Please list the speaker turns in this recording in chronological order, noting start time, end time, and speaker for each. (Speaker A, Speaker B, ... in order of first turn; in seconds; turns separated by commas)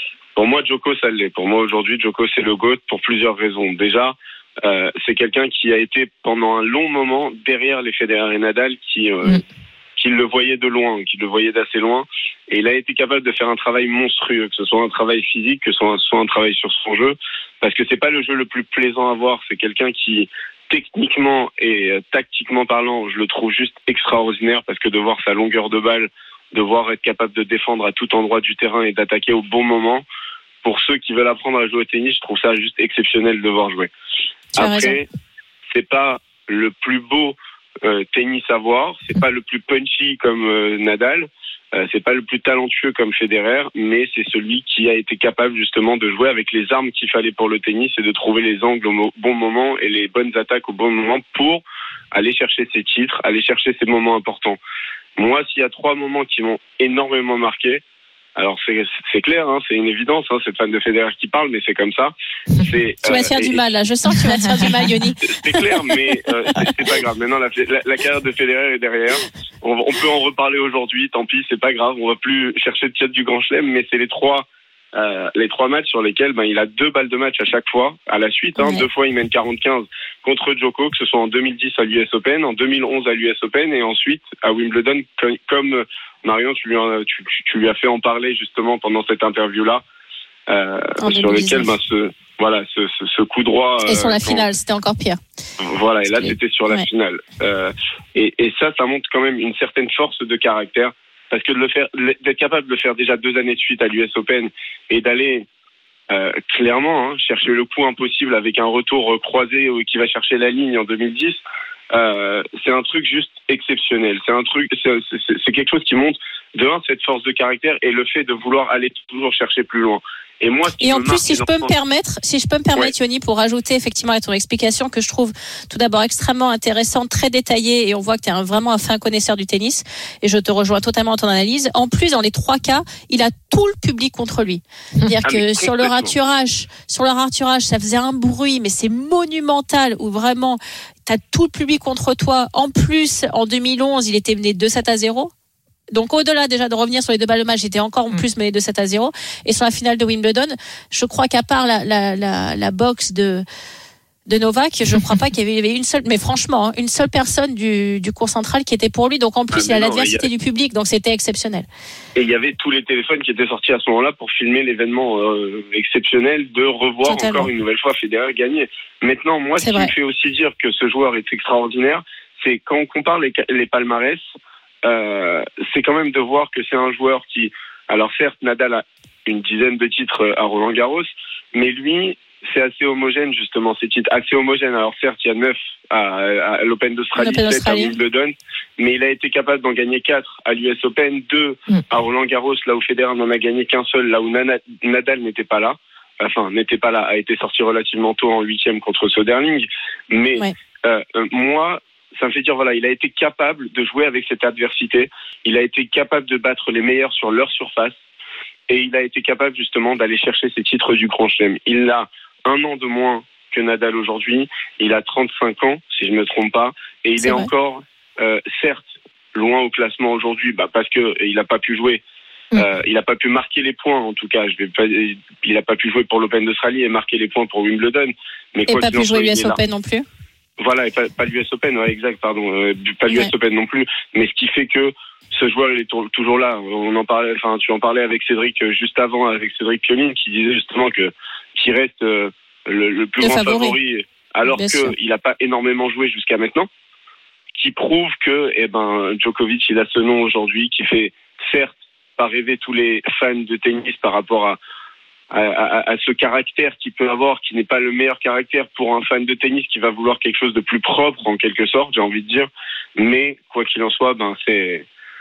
Speaker A: 0.4-9.4, Speaker A: 10.0-30.0, Speaker A: 30.6-33.9, Speaker A: 34.6-35.0, Speaker B: 34.6-35.0, Speaker A: 35.7-54.6, Speaker A: 55.2-57.8, Speaker A: 58.4-63.6, Speaker B: 63.0-65.2, Speaker A: 65.2-89.8, Speaker B: 78.6-78.9, Speaker A: 90.5-94.5, Speaker B: 91.0-91.7, Speaker B: 93.9-95.2, Speaker A: 95.6-105.5, Speaker B: 96.2-96.9, Speaker A: 106.1-111.4, Speaker A: 111.9-121.7, Speaker B: 120.8-145.3, Speaker A: 135.2-136.1, Speaker B: 145.9-153.4, Speaker B: 154.3-161.7, Speaker A: 159.5-160.3, Speaker A: 162.2-174.2, Speaker B: 167.1-167.5, Speaker B: 169.6-169.9, Speaker A: 174.8-207.9, Speaker B: 187.2-188.0, Speaker A: 208.7-218.8, Speaker B: 217.2-217.5, Speaker A: 219.3-222.0, Speaker A: 222.6-229.6, Speaker B: 228.7-230.1, Speaker A: 230.6-246.7, Speaker B: 243.2-243.8, Speaker B: 244.5-244.9, Speaker A: 247.5-254.6, Speaker A: 255.3-264.9